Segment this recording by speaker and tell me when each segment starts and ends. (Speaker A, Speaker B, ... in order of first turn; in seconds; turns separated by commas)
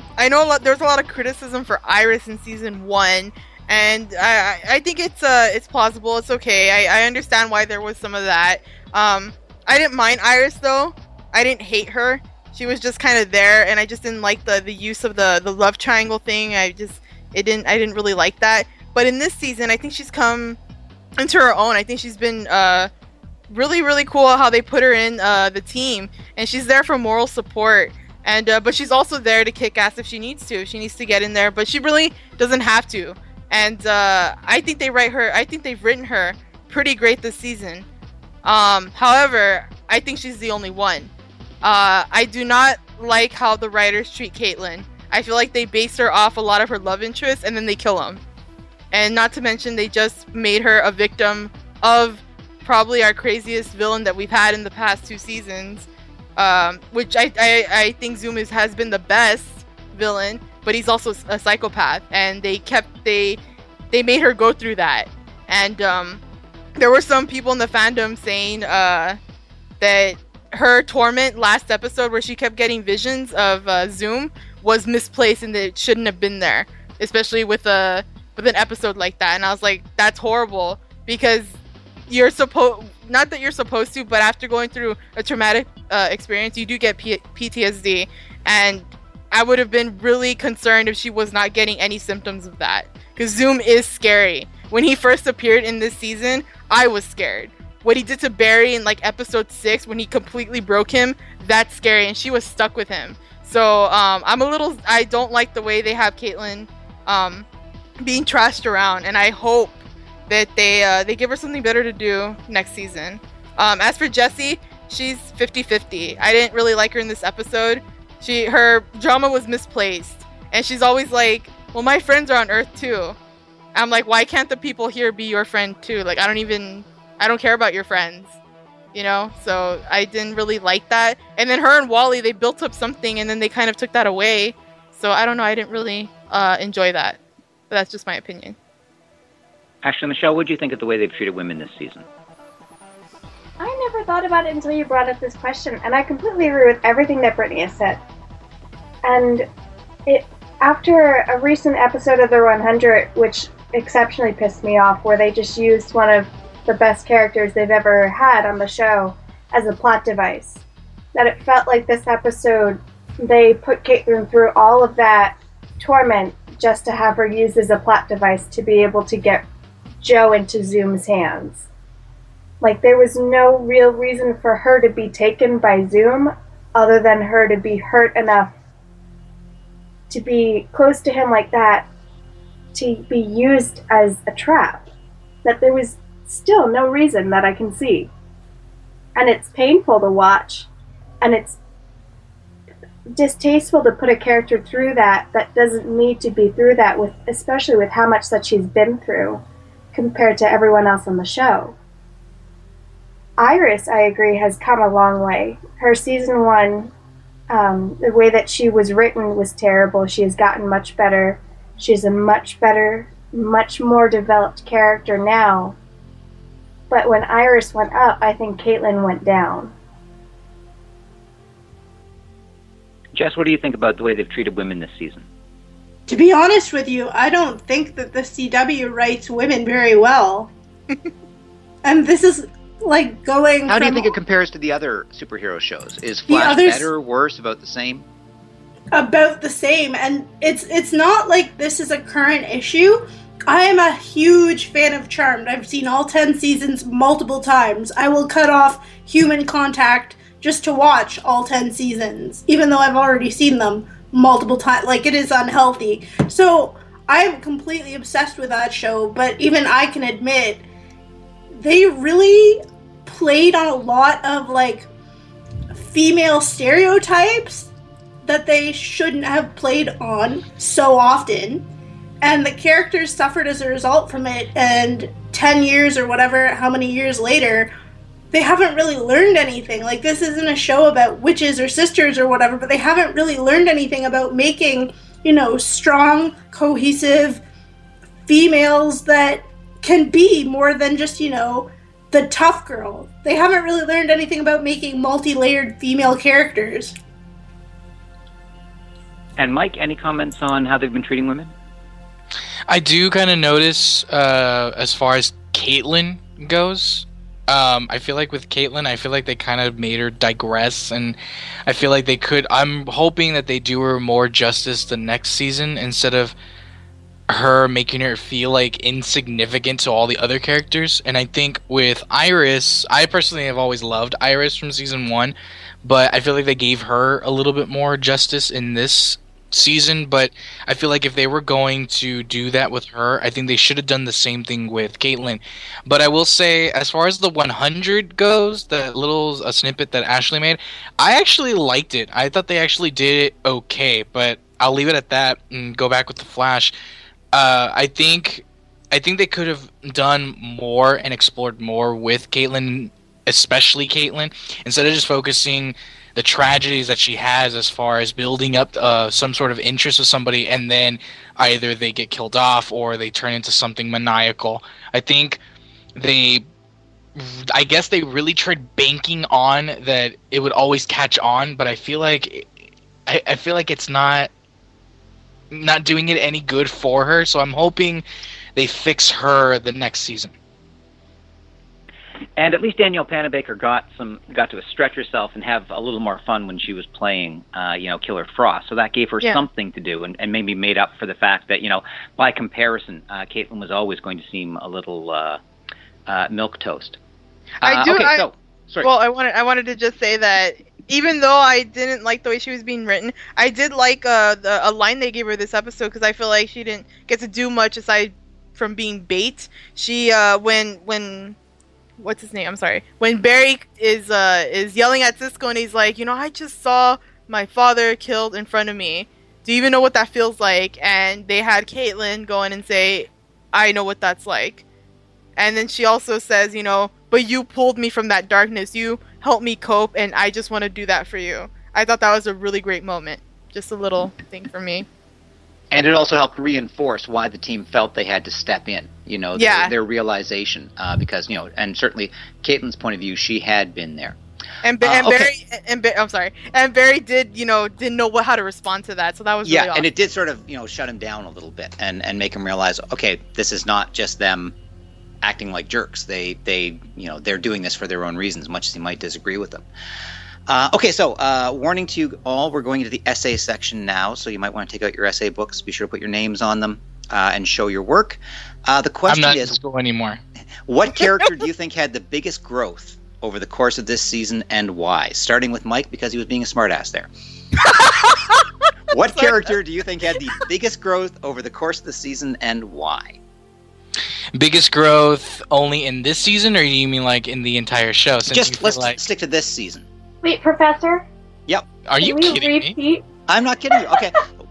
Speaker A: 0.2-20.6, Speaker A: 21.2-22.9, Speaker A: 23.5-37.9, Speaker A: 38.4-48.2, Speaker A: 48.9-63.4, Speaker A: 63.9-66.2, Speaker A: 66.8-69.2, Speaker A: 69.8-81.5, Speaker A: 82.1-107.5, Speaker A: 108.0-109.8, Speaker A: 110.3-123.2, Speaker A: 123.8-128.4, Speaker A: 128.9-138.6, Speaker B: 139.8-142.0, Speaker C: 143.6-148.0, Speaker C: 149.0-149.5, Speaker C: 150.1-160.6, Speaker C: 161.1-169.4, Speaker C: 170.0-171.7, Speaker C: 172.6-178.5, Speaker C: 180.1-181.9, Speaker C: 182.7-184.9, Speaker C: 185.4-188.1, Speaker C: 189.2-190.7, Speaker C: 191.2-191.6, Speaker C: 193.1-199.4, Speaker C: 199.9-201.8, Speaker C: 203.4-206.9, Speaker C: 207.5-215.8, Speaker C: 216.9-219.7, Speaker B: 223.1-225.3, Speaker D: 226.1-230.5, Speaker D: 231.8-234.1, Speaker B: 233.7-238.1, Speaker D: 236.3-236.9, Speaker D: 238.9-260.6, Speaker D: 261.5-264.9, Speaker D: 265.7-267.7, Speaker D: 268.2-271.7, Speaker D: 272.2-277.7, Speaker D: 278.3-287.4, Speaker D: 288.3-296.9, Speaker B: 299.4-301.5, Speaker E: 302.7-316.4, Speaker E: 317.3-346.7, Speaker E: 347.3-365.4, Speaker E: 366.0-366.4, Speaker E: 367.1-372.5, Speaker E: 373.1-374.3, Speaker E: 375.5-378.0, Speaker E: 378.6-380.3, Speaker B: 382.4-395.4, Speaker B: 396.1-397.0, Speaker B: 397.6-398.9, Speaker A: 397.6-398.2, Speaker A: 398.8-411.4, Speaker A: 412.0-424.6, Speaker A: 425.4-434.9, Speaker B: 435.7-444.2, Speaker A: 439.4-439.7, Speaker A: 444.6-449.9, Speaker B: 444.8-445.3, Speaker B: 449.4-454.5, Speaker B: 455.2-459.6, Speaker B: 460.5-469.6, Speaker E: 469.1-470.2, Speaker B: 470.6-477.1, Speaker B: 478.9-483.2, Speaker A: 479.1-479.5, Speaker E: 484.4-489.0, Speaker B: 488.3-489.9, Speaker C: 490.2-491.1, Speaker E: 491.9-492.8, Speaker C: 492.0-493.0, Speaker B: 493.3-494.3